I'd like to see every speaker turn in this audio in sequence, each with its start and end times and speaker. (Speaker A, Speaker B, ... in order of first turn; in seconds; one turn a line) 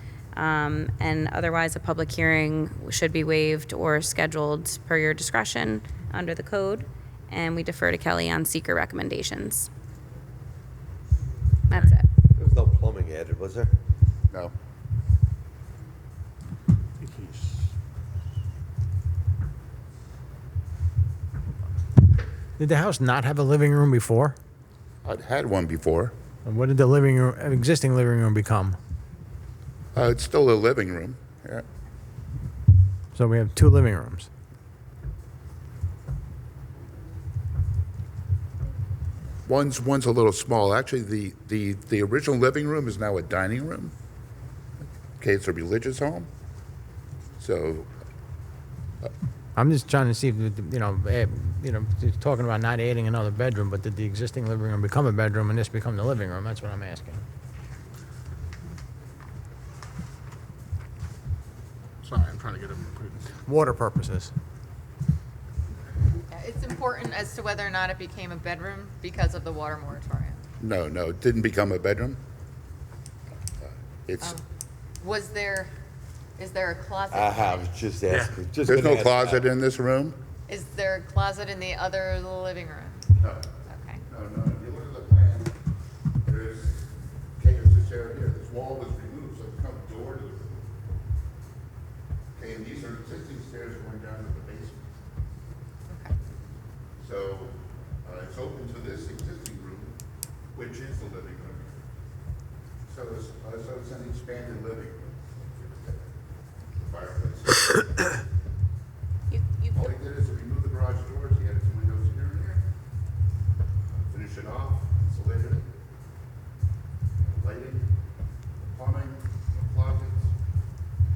Speaker A: 0.3-9.7
Speaker A: 11.7-12.1
Speaker B: 12.3-13.7
Speaker C: 17.0-17.7
Speaker D: 22.6-24.4
Speaker E: 25.0-26.1
Speaker D: 26.4-28.8
Speaker E: 29.9-31.6
Speaker D: 33.1-34.3
Speaker E: 39.5-43.9
Speaker E: 45.2-46.3
Speaker E: 47.4-47.9
Speaker D: 49.5-57.2
Speaker C: 62.0-63.3
Speaker D: 63.5-64.3
Speaker F: 66.3-70.4
Speaker E: 70.6-72.2
Speaker E: 74.0-74.3
Speaker F: 75.0-75.7
Speaker F: 76.4-77.7
Speaker B: 77.1-79.5
Speaker C: 78.1-78.3
Speaker E: 78.6-80.2
Speaker F: 80.5-83.0
Speaker E: 83.2-83.4
Speaker F: 83.7-84.0
Speaker E: 84.1-85.5
Speaker E: 86.2-86.9
Speaker E: 87.4-90.6
Speaker E: 92.3-94.9
Speaker F: 95.9-96.1
Speaker E: 97.0-99.9
Speaker E: 100.5-101.8
Speaker E: 102.9-105.0
Speaker E: 105.6-106.0
Speaker E: 106.8-108.1
Speaker A: 109.3-109.9
Speaker E: 109.7-112.6
Speaker E: 114.1-115.7
Speaker E: 117.2-117.9
Speaker E: 118.6-120.3